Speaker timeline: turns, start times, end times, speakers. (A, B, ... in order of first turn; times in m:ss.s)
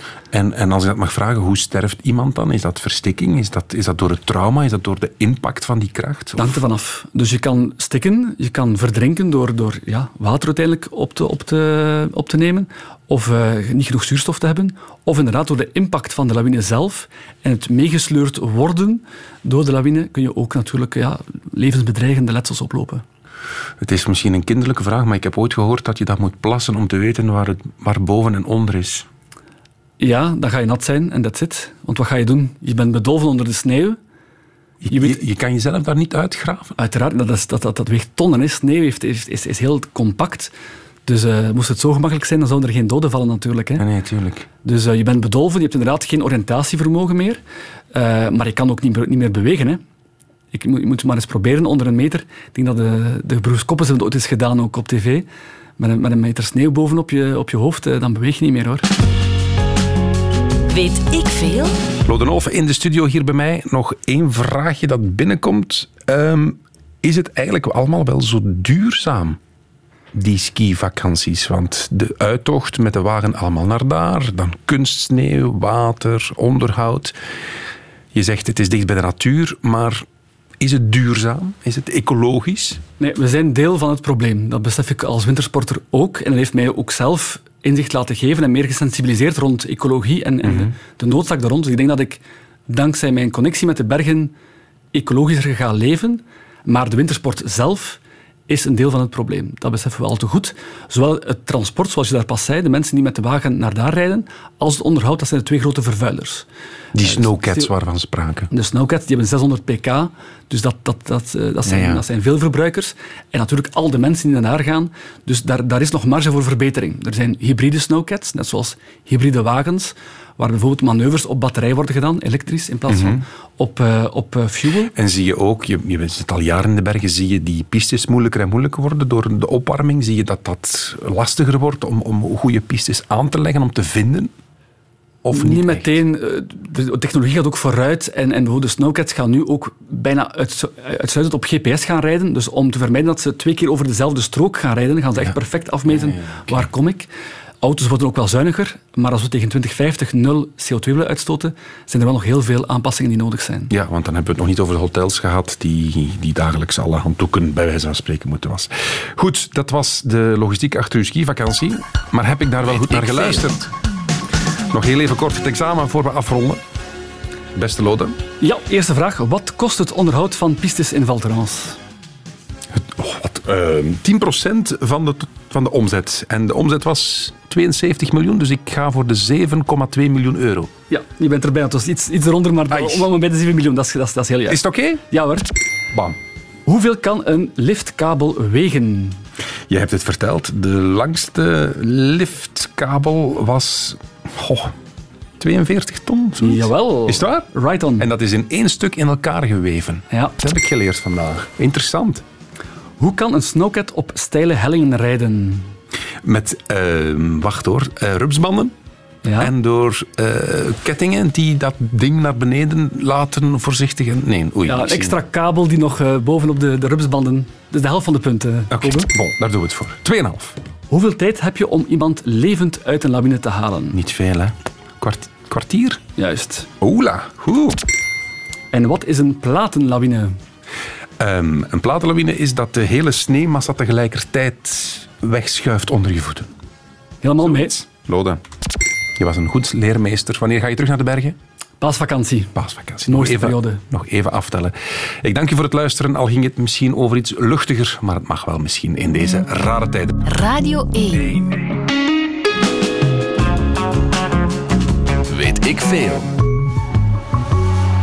0:00.3-0:06.6 A
0:06.4-0:23.0 B
0:23.8-0:29.1 A
0:30.0-0:34.0 B
0:34.8-0:36.8 A
0:34.9-0:35.2 B
0:36.8-0:40.5 B
0:41.1-0:43.8 B
0:43.8-0:44.5 A
0:44.6-0:47.4 B
0:47.9-0:49.8 B
0:50.5-0:55.3 B
0:55.8-0:58.9 B
1:00.7-1:01.8 C
1:02.0-1:09.4 A
1:10.1-1:17.2 A
1:18.1-1:20.0 A
1:20.6-1:22.8 A
1:23.0-1:34.3 B
1:30.4-1:30.7 A
1:34.9-1:46.5 B
1:46.9-1:48.5 A
1:47.0-1:47.7 B
1:48.5-2:04.9 B
1:51.6-1:52.0 A
2:02.9-2:03.2 A
2:04.9-2:14.3 A
2:15.2-2:16.0 A
2:15.3-2:27.1 B
2:25.2-2:26.7 A
2:27.6-2:33.7 B
2:33.7-2:43.7 A
2:44.7-2:46.6 A
2:47.5-2:48.2 A
2:48.4-2:51.8 B
2:52.7-3:00.7 A
3:00.9-3:05.5 B
3:02.7-3:03.1 A
3:04.5-3:05.0 A
3:05.9-3:06.2 A
3:06.7-3:09.2 B
3:09.7-3:14.8 A
3:15.4-3:22.2 A
3:16.4-3:18.1 B
3:23.0-3:25.7 B
3:26.2-3:28.7 A
3:29.2-3:29.5 B
3:29.4-3:35.2 A
3:34.7-3:39.1 B
3:38.7-3:40.6 A
3:40.9-3:44.0 B
3:43.9-3:46.0 A
3:46.2-3:46.7 B
3:46.8-3:47.8 A
3:48.7-3:50.4 B
3:51.2-3:56.5 A
3:57.2-3:57.8 B
3:57.4-3:58.4 A
3:59.2-4:01.4 A
4:01.8-4:03.8 B
4:02.6-4:10.2 A
4:10.2-4:11.4 C
4:15.3-4:16.4 A